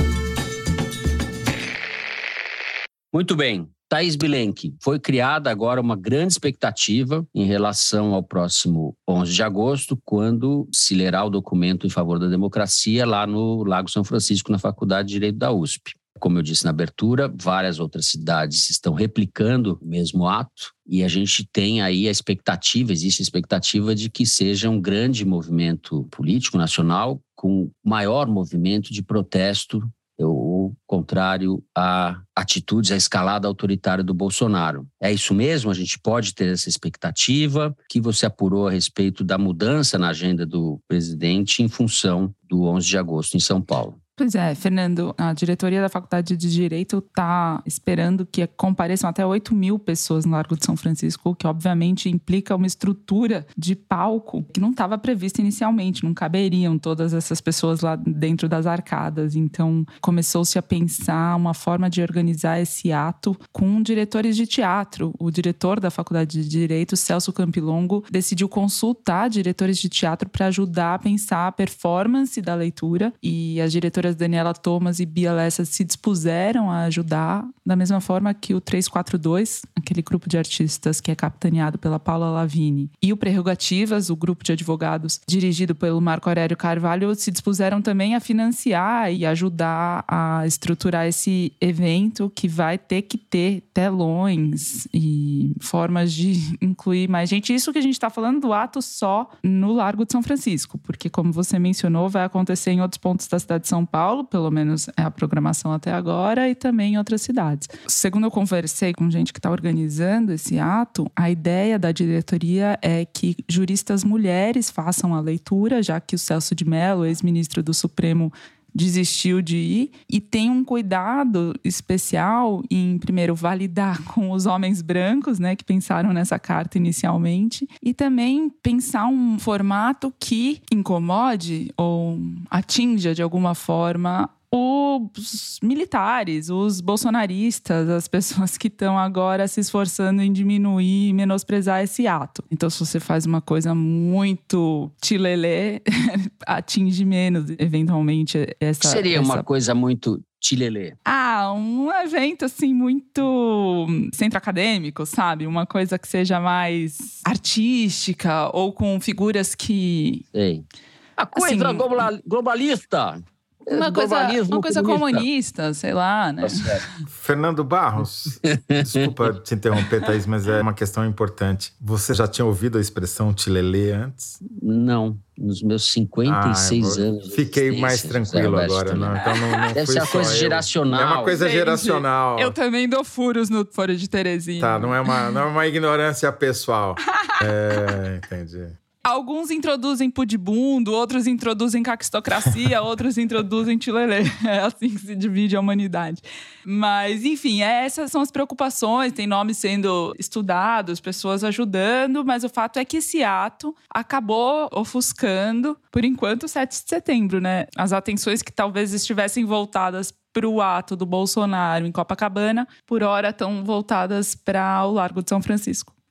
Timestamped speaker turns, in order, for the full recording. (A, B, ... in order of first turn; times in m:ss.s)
0:03.1-0:44.0 A
0:44.2-2:29.5 B
2:28.8-2:31.0 A
2:31.1-2:40.2 B
2:40.3-2:40.7 A
2:41.2-2:45.3 A
2:41.3-2:41.9 B
2:43.7-2:46.8 B
2:46.4-2:46.8 A
2:47.1-2:54.4 C
2:48.4-2:49.1 A
2:54.4-3:01.4 A
2:56.2-3:02.6 C
3:01.3-3:05.0 B
3:04.6-3:08.8 C
3:09.0-3:35.9 B